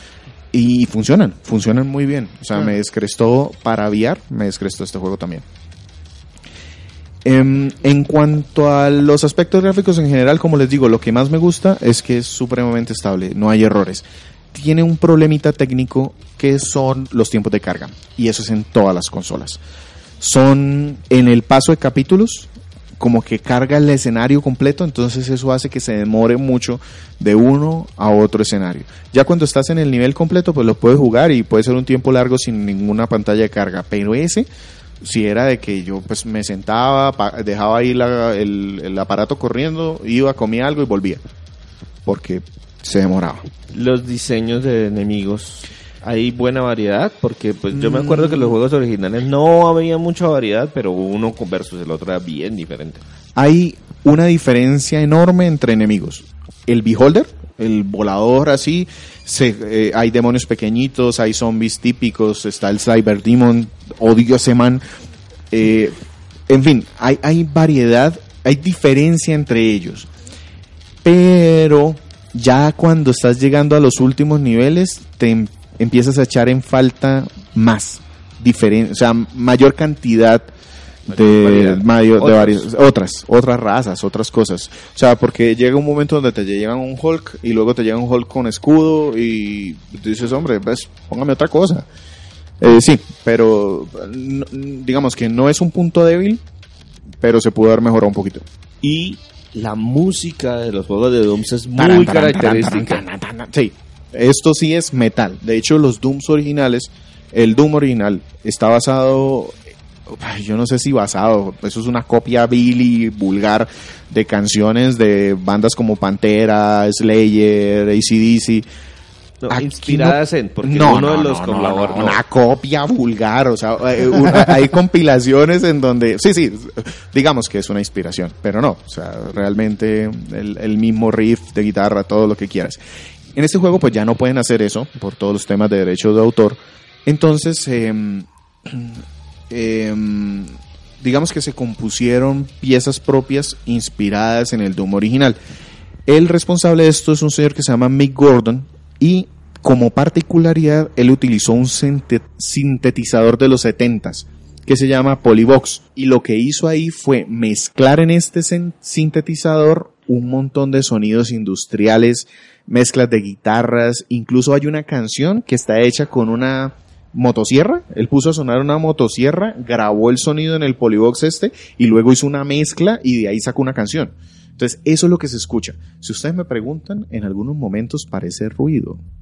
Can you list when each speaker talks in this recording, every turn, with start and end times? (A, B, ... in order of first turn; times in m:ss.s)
0:00.5-0:05.4 A
0:07.2-0:19.6 A
0:20.2-0:34.5 A
0:35.0-0:41.2 A
0:42.0-0:43.4 A
0:43.7-0:53.0 B
0:47.7-0:48.5 A
0:53.4-1:04.8 A
1:05.5-1:10.1 A
1:11.0-1:20.5 A
1:21.1-1:22.7 B
1:21.1-1:31.9 A
1:32.6-1:36.4 A
1:37.2-1:38.4 A
1:38.8-1:43.0 B
1:41.8-1:58.7 A
1:59.4-2:02.2 B
1:59.5-2:12.8 A
2:13.3-2:25.4 A
2:26.0-2:59.0 A